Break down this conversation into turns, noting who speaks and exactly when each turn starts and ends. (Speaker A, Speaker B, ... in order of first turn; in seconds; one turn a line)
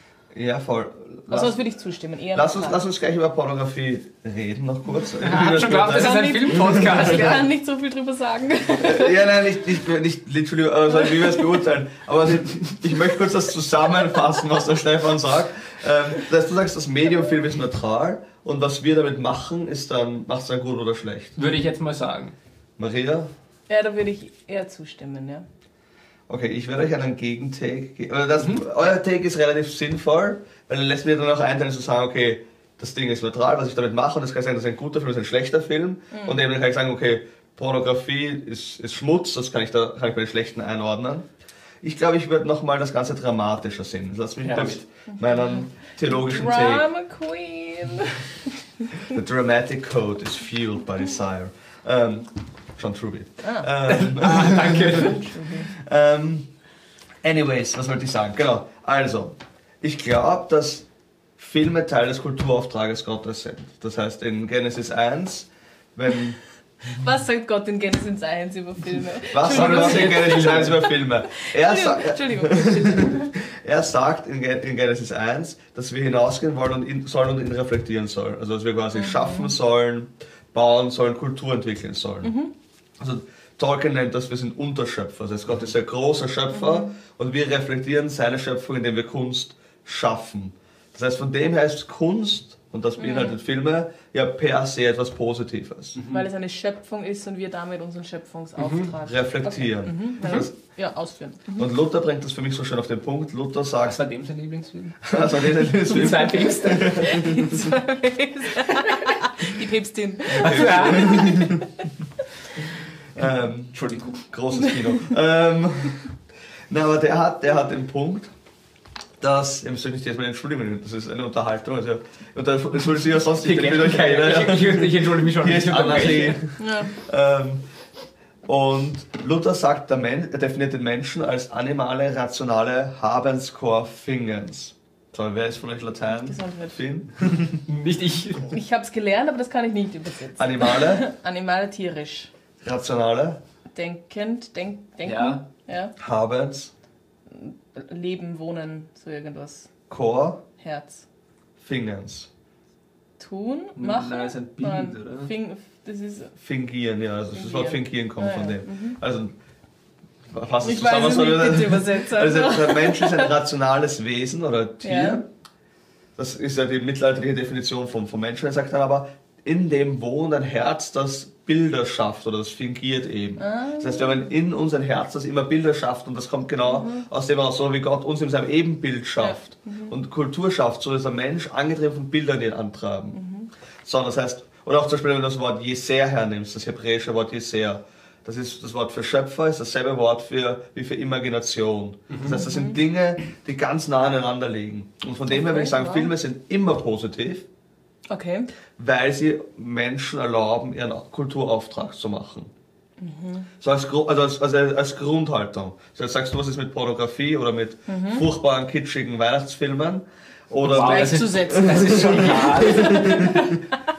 Speaker A: 0.3-1.6
Speaker B: 1.3-2.8
Speaker A: 2.3-7.4
Speaker C: 5.2-7.5
Speaker B: 5.8-9.2
Speaker A: 8.8-21.4
Speaker B: 11.0-11.3
Speaker C: 21.4-22.4
Speaker A: 22.8-23.3
Speaker B: 23.7-25.4
Speaker A: 26.3-41.3
Speaker B: 36.1-36.4
Speaker A: 41.8-46.9
Speaker C: 44.4-44.8
Speaker B: 45.1-48.5
Speaker A: 49.1-55.2
Speaker B: 53.4-53.7
Speaker C: 53.8-55.6
Speaker B: 55.2-55.7
Speaker A: 55.7-56.5
Speaker A: 57.2-60.9
Speaker A: 61.4-66.4
Speaker B: 66.9-73.3
Speaker A: 69.3-82.3
Speaker C: 69.4-70.9
Speaker B: 79.0-79.5
Speaker B: 82.2-82.5
Speaker A: 83.0-96.0
Speaker B: 86.5-86.9
Speaker B: 93.0-93.4
Speaker C: 96.0-96.3
Speaker B: 96.1-101.7
Speaker C: 98.6-98.9
Speaker A: 99.0-100.5
Speaker A: 101.6-104.0
Speaker C: 103.8-106.9
Speaker A: 105.1-107.7
Speaker B: 105.9-111.7
Speaker A: 110.3-111.7
Speaker C: 110.3-111.5
Speaker A: 113.1-116.1
Speaker C: 113.7-114.2
Speaker B: 114.5-115.1
Speaker A: 116.7-118.3
Speaker A: 119.2-127.6
Speaker C: 123.4-126.4
Speaker B: 126.6-126.9
Speaker A: 128.4-137.6
Speaker B: 136.3-136.8
Speaker C: 137.7-138.5
Speaker B: 138.5-142.3
Speaker A: 140.4-141.1
Speaker A: 142.6-143.4
Speaker B: 143.8-145.9
Speaker C: 145.1-145.4
Speaker A: 146.0-146.7
Speaker B: 147.3-149.7
Speaker A: 149.9-150.4
Speaker B: 150.6-151.1
Speaker A: 151.6-152.3
Speaker B: 153.2-156.3
Speaker A: 153.8-154.8
Speaker C: 153.8-155.3
Speaker A: 156.4-159.3
Speaker B: 157.3-159.0
Speaker A: 160.3-165.3
Speaker B: 160.6-163.3
Speaker B: 164.8-165.2
Speaker A: 166.2-183.2
Speaker B: 173.4-174.2
Speaker B: 176.7-177.1
Speaker B: 179.2-180.0
Speaker B: 183.1-183.5
Speaker A: 183.8-197.5
Speaker C: 192.1-192.4
Speaker B: 192.3-192.8
Speaker B: 195.3-196.1
Speaker B: 198.1-198.5
Speaker A: 198.8-202.5
Speaker B: 203.0-203.5
Speaker A: 203.6-213.6
Speaker B: 207.9-208.2
Speaker C: 210.6-213.2
Speaker B: 210.8-213.6